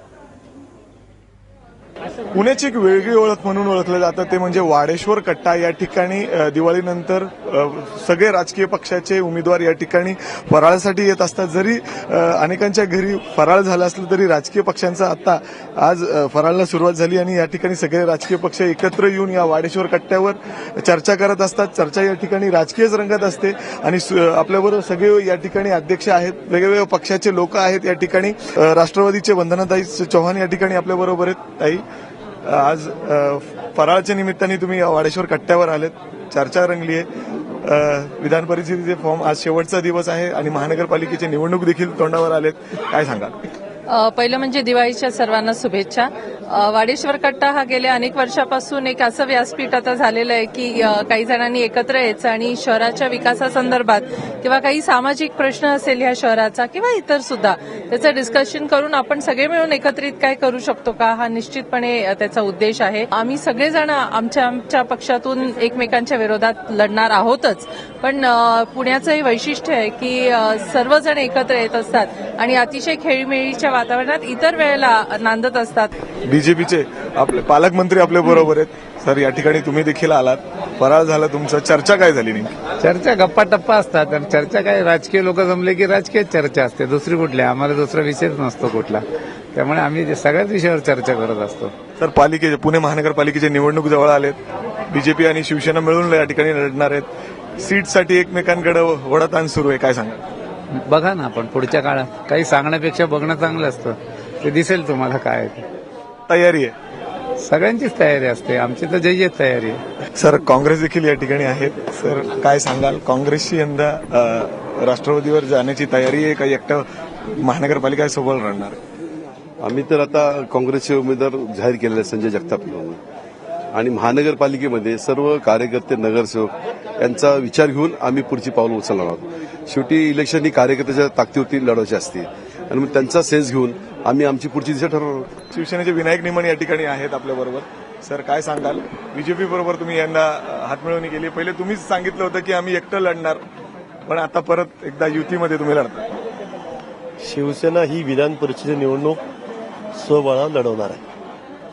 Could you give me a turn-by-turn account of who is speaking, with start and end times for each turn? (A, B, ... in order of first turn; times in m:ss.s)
0:02.3-0:31.8 A
0:32.4-0:37.0 A
0:37.6-0:43.3 A
0:43.9-1:15.9 B
1:16.2-1:22.5 A
1:22.8-1:29.0 C
1:29.5-1:31.7 C
1:32.0-1:34.4 A
1:34.9-1:37.1 A
1:37.6-1:40.2 A
1:40.7-1:45.6 C
1:46.3-1:46.7 A
1:47.4-1:49.8 C
1:50.2-1:56.8 A
1:57.4-1:58.8 A
1:59.6-2:03.0 D
2:03.7-2:15.3 D
2:15.5-2:23.4 A
2:24.1-2:26.0 A
2:27.2-2:29.2 E
2:30.0-2:31.0 E